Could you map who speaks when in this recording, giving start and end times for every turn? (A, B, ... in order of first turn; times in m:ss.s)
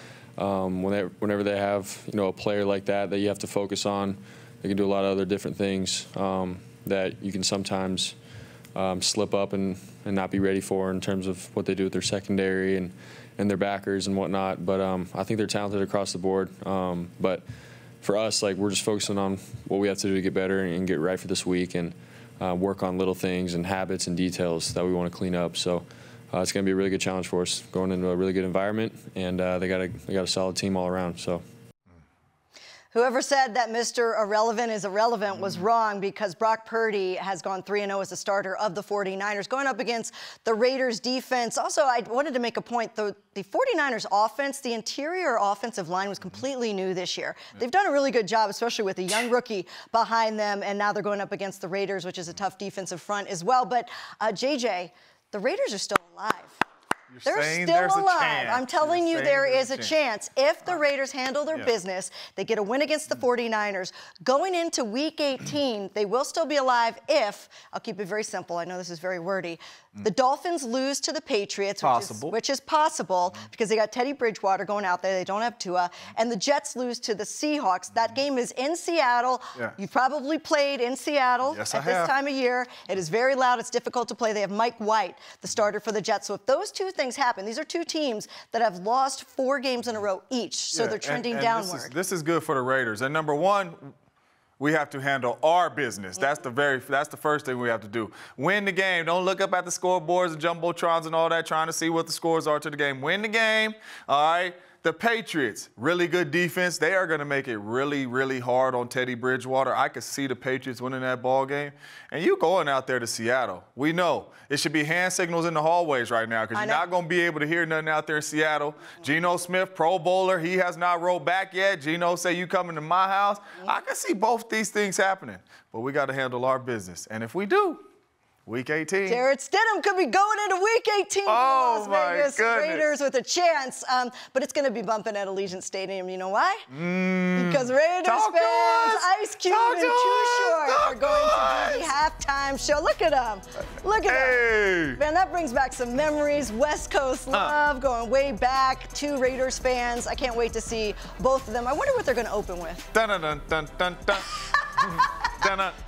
0:00.4-0:08.2 A
0:08.7-0:17.4 A
0:18.0-0:31.4 A
0:32.9-0:56.6 B
0:57.1-0:59.9 C
0:57.2-1:32.0 B
1:11.8-1:12.4 C
1:21.5-1:22.1 C
1:30.7-1:33.9 C
1:34.6-2:07.8 C
1:56.6-1:56.9 B
2:08.5-2:09.2 C
2:09.1-2:16.7 B
2:11.3-2:12.9 C
2:16.7-2:21.9 C
2:17.3-2:32.9 B
2:24.1-2:25.0 C
2:32.9-2:35.8 C